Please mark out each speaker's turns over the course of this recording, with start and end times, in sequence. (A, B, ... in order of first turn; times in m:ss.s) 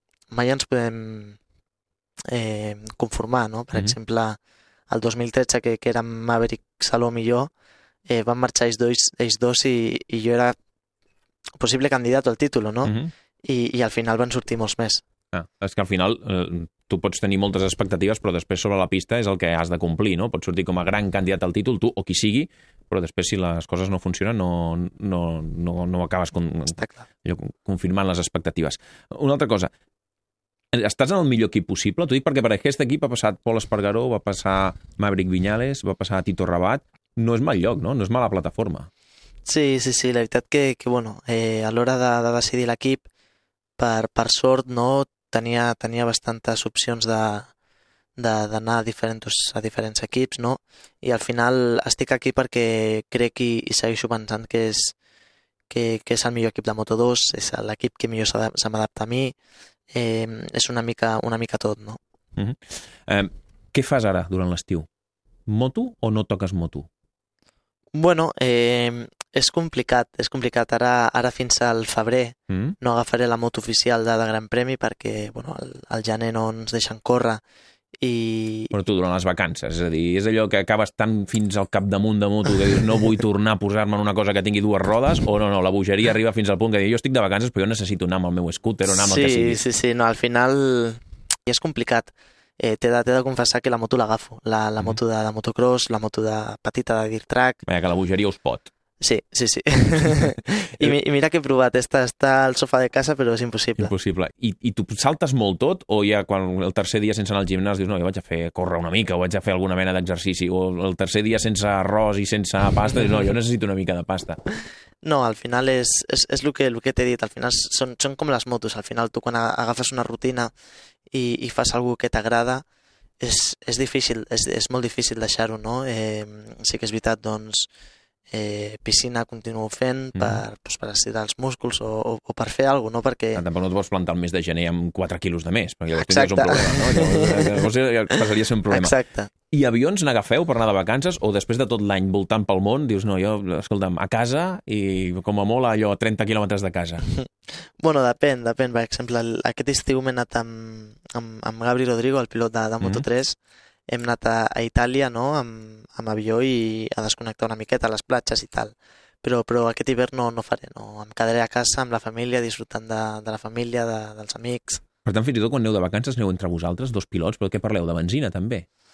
0:00.3-0:01.4 A
0:02.3-0:04.4 A
0:04.9-0:07.5 A
0:08.1-0:10.5 A
0:11.6-0:15.0 A
0:12.8-0:13.1 B
0:15.3-0:29.7 B
0:26.8-0:27.1 A
0:30.7-0:38.9 B
0:39.4-0:43.0 A
0:43.8-0:47.5 A
0:48.2-0:54.9 A
0:55.7-0:59.3 A
0:59.9-1:02.0 A
1:02.4-1:04.9 B
1:05.5-1:06.9 B
1:07.9-1:17.4 A
1:12.5-1:12.8 B
1:18.0-1:18.7 A
1:18.7-1:29.6 B
1:28.9-1:37.6 A
1:37.7-1:38.7 B
1:39.0-1:43.9 A
1:43.8-1:54.4 B
1:55.0-2:00.5 A
2:01.1-2:02.6 A
2:03.2-2:07.7 A
2:08.3-2:13.4 A
2:10.1-2:10.4 B
2:13.4-2:18.9 B
2:16.0-2:19.3 A
2:19.5-2:27.0 B
2:27.8-2:33.4 A
2:33.9-2:44.8 A
2:45.0-2:48.6 B